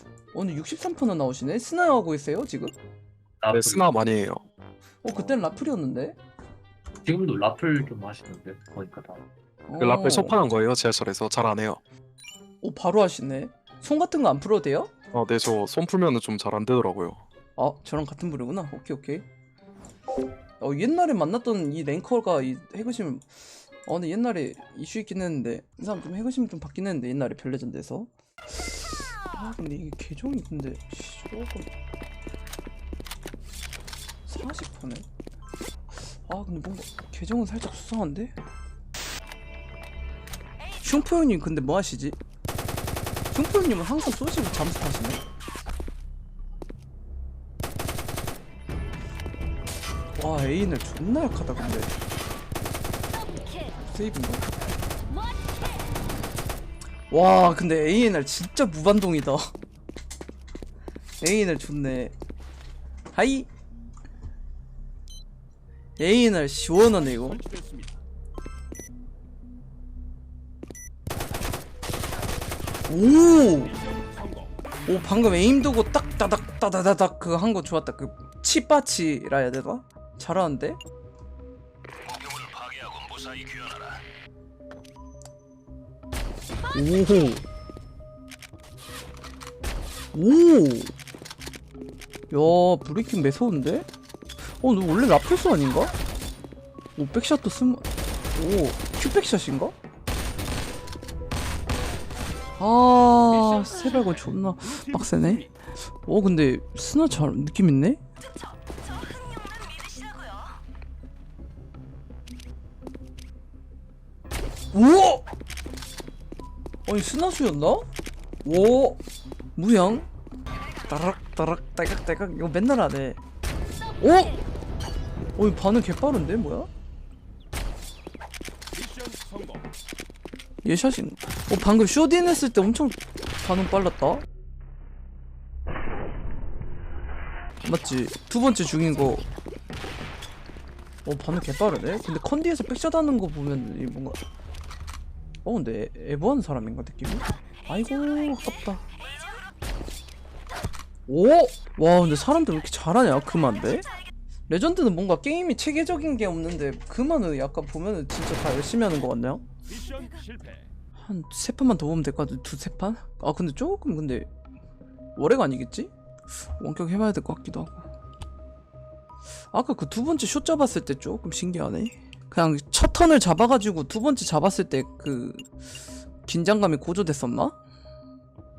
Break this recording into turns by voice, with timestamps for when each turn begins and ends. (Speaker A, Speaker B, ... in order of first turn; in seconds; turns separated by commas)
Speaker A: 0.3-2.7, Speaker B: 3.4-3.8, Speaker C: 3.5-4.4, Speaker A: 5.0-6.2, Speaker B: 7.0-9.2, Speaker A: 9.7-10.3, Speaker C: 9.8-11.8, Speaker A: 12.6-14.9, Speaker C: 15.1-17.2, Speaker A: 17.6-19.2, Speaker A: 20.6-23.3, Speaker A: 23.8-31.7, Speaker A: 34.2-35.0, Speaker A: 36.0-38.3, Speaker A: 40.8-42.2, Speaker A: 43.3-45.2, Speaker A: 50.2-51.9, Speaker A: 53.8-54.4, Speaker A: 57.1-59.5, Speaker A: 61.2-62.1, Speaker A: 63.1-63.5, Speaker A: 66.0-67.4, Speaker A: 72.9-73.8, Speaker A: 74.8-80.8, Speaker A: 86.7-87.5, Speaker A: 90.1-90.9, Speaker A: 92.3-93.9, Speaker A: 94.5-95.9, Speaker A: 97.0-99.7, Speaker A: 102.6-108.0, Speaker A: 114.7-115.2, Speaker A: 116.8-117.8, Speaker A: 118.4-119.0, Speaker A: 119.5-120.1, Speaker A: 120.8-123.2, Speaker A: 124.0-124.4, Speaker A: 125.4-126.7, Speaker A: 130.6-134.2, Speaker A: 137.6-139.2, Speaker A: 141.0-144.2, Speaker A: 145.4-148.8, Speaker A: 151.1-153.9, Speaker A: 154.5-159.4, Speaker A: 161.0-164.3, Speaker A: 165.2-167.9, Speaker A: 169.5-175.5, Speaker A: 176.2-177.6